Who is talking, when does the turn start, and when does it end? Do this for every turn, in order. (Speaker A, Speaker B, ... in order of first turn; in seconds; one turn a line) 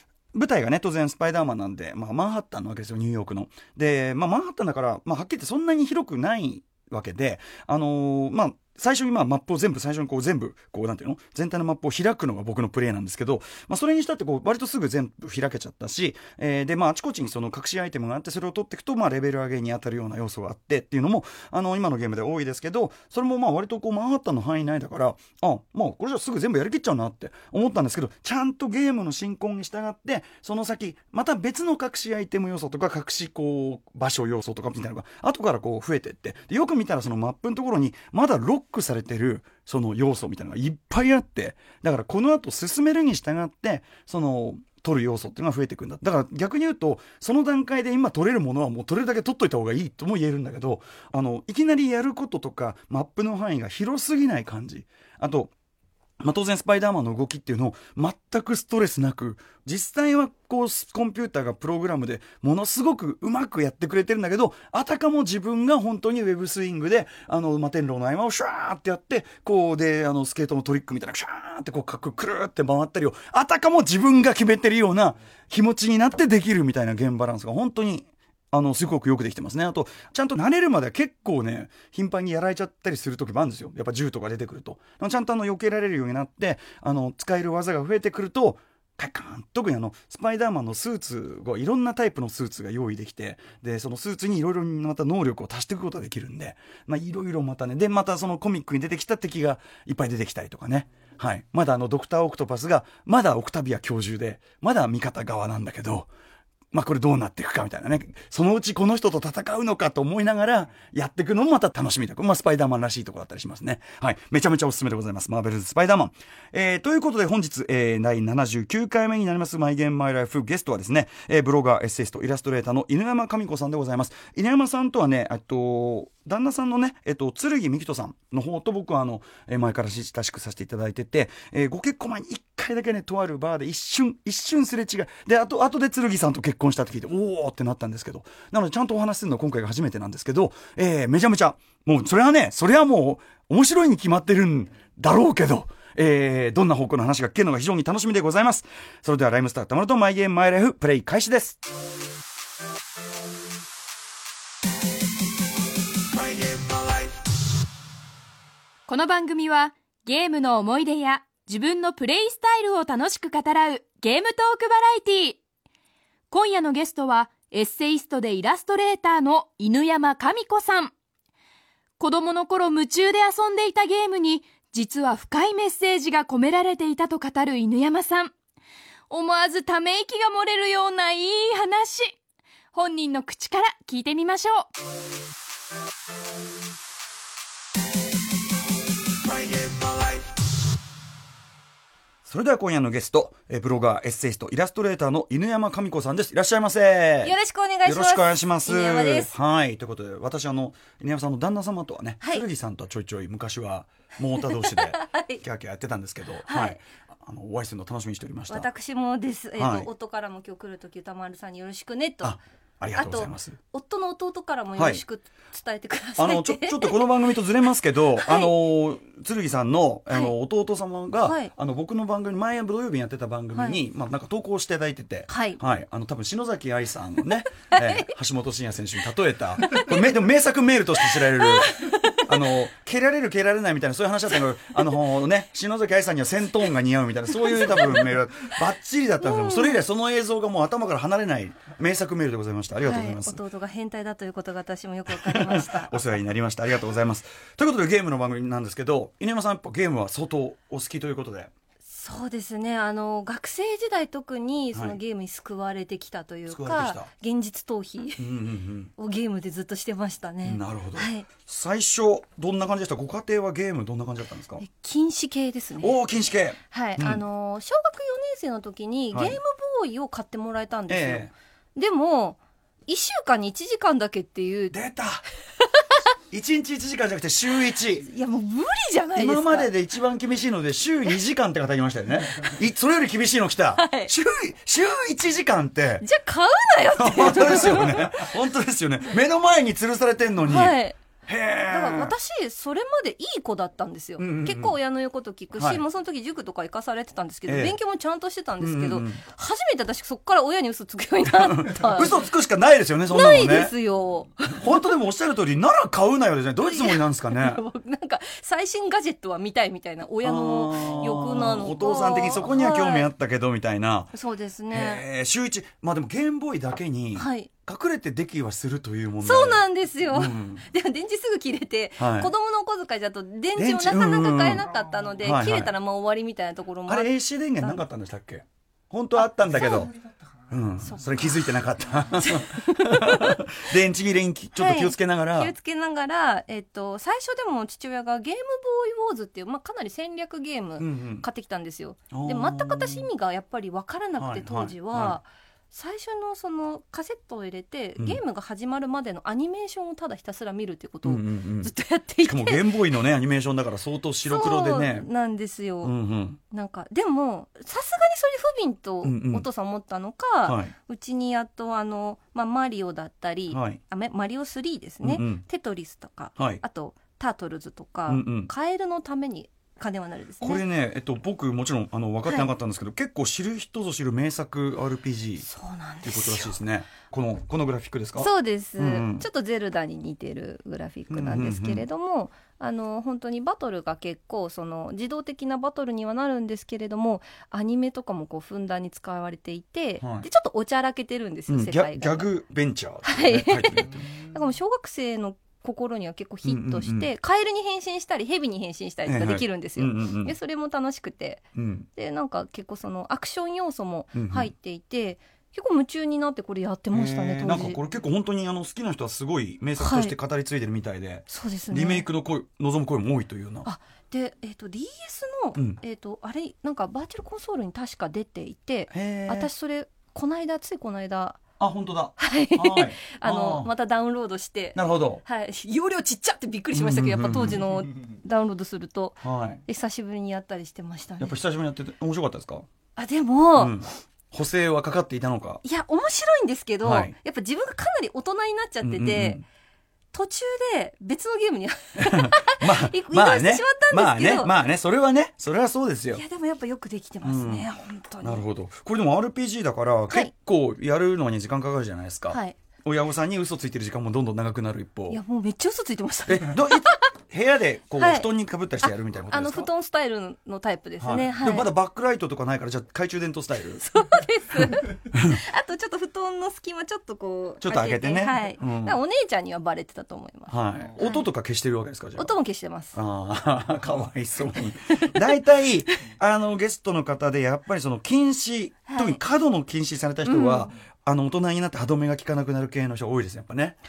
Speaker A: 0.3-55.5
Speaker A: 56.2-106.1
Speaker A: 106.7-151.6
Speaker B: 158.9-165.4
Speaker B: 166.3-170.9
Speaker B: 172.0-178.3
Speaker B: 179.1-182.2
Speaker B: 182.7-184.7
Speaker A: 192.2-208.7
Speaker C: 197.2-199.3
Speaker C: 204.4-205.4
Speaker C: 206.4-206.8
Speaker C: 208.5-212.4
Speaker A: 209.6-209.9
Speaker A: 212.2-213.6
Speaker C: 212.9-217.2
Speaker A: 214.8-215.0
Speaker A: 216.2-243.4
Speaker C: 218.2-218.5
Speaker C: 221.2-221.5
Speaker C: 223.5-223.8
Speaker C: 225.3-225.6
Speaker C: 227.7-228.1
Speaker C: 231.1-232.3
Speaker C: 237.3-238.1
Speaker C: 239.2-239.8
Speaker C: 242.8-246.0
Speaker A: 245.2-251.5
Speaker C: 251.8-258.2
Speaker A: 256.5-257.1
Speaker A: 258.2-258.9
Speaker C: 259.0-261.3
Speaker A: 260.4-264.6
Speaker C: 264.6-266.0
Speaker A: 265.8-267.2
Speaker C: 266.7-274.8
Speaker A: 269.1-269.4
Speaker A: 270.9-271.3
Speaker A: 274.7-275.2
Speaker C: 275.6-276.0
Speaker A: 276.3-278.1
Speaker C: 278.0-279.7
Speaker A: 279.1-286.1
Speaker C: 283.7-284.1
Speaker C: 286.0-288.3
Speaker A: 287.0-292.1
Speaker C: 290.4-291.0
Speaker C: 291.7-302.2
Speaker A: 294.2-294.7
Speaker A: 295.6-295.8
Speaker A: 297.5-297.8
Speaker A: 298.6-299.2
Speaker A: 301.4-303.7
Speaker C: 303.1-304.9
Speaker A: 304.5-307.6
Speaker C: 306.6-313.1
Speaker A: 310.2-314.1
Speaker C: 314.1-315.0
Speaker A: 314.7-320.6
Speaker C: 317.1-317.5
Speaker C: 319.2-327.8
Speaker A: 322.0-322.3
Speaker A: 323.6-324.6
Speaker A: 325.2-325.7
Speaker A: 326.9-329.9
Speaker A: 330.5-335.5
Speaker C: 330.8-333.4
Speaker C: 334.6-352.8
Speaker A: 340.8-341.2
Speaker A: 342.1-343.1
Speaker A: 344.2-345.2
Speaker A: 351.0-351.7
Speaker A: 352.2-355.1
Speaker C: 354.2-355.9
Speaker A: 355.8-356.4
Speaker C: 356.5-370.6
Speaker A: 359.0-359.4
Speaker A: 360.4-360.7
Speaker A: 363.5-363.8
Speaker A: 365.0-365.4
Speaker A: 366.4-366.6
Speaker A: 368.1-368.5
Speaker A: 370.4-375.5
Speaker C: 375.4-376.5
Speaker A: 376.0-379.2
Speaker C: 378.2-392.3
Speaker A: 381.1-381.9
Speaker A: 390.0-390.3
Speaker A: 391.5-394.2
Speaker C: 393.0-407.8
Speaker A: 396.4-397.1
Speaker A: 399.1-400.4
Speaker A: 401.5-401.9
Speaker A: 404.1-404.5
Speaker A: 406.9-413.7
Speaker C: 409.8-410.1
Speaker C: 411.3-412.1
Speaker C: 413.6-421.4
Speaker A: 418.9-419.5
Speaker A: 421.6-423.7
Speaker C: 422.2-431.3
Speaker A: 424.7-425.2
Speaker A: 426.7-427.6
Speaker A: 429.2-429.6
Speaker A: 431.2-432.7
Speaker C: 432.9-433.8
Speaker A: 433.6-435.6
Speaker C: 435.6-439.4
Speaker A: 436.8-437.1
Speaker A: 438.8-439.4
Speaker C: 440.1-444.6
Speaker A: 442.0-446.2
Speaker C: 446.1-448.4
Speaker A: 447.2-447.7
Speaker A: 448.2-455.2
Speaker C: 452.3-452.6
Speaker C: 455.1-457.0
Speaker A: 456.3-459.7
Speaker C: 458.0-458.3
Speaker C: 458.8-461.7
Speaker A: 461.0-463.8
Speaker C: 463.8-471.3
Speaker A: 467.6-469.0
Speaker A: 470.5-472.3
Speaker C: 472.2-473.0
Speaker A: 472.9-483.8
Speaker C: 474.9-475.3
Speaker C: 478.9-479.2
Speaker C: 480.2-480.7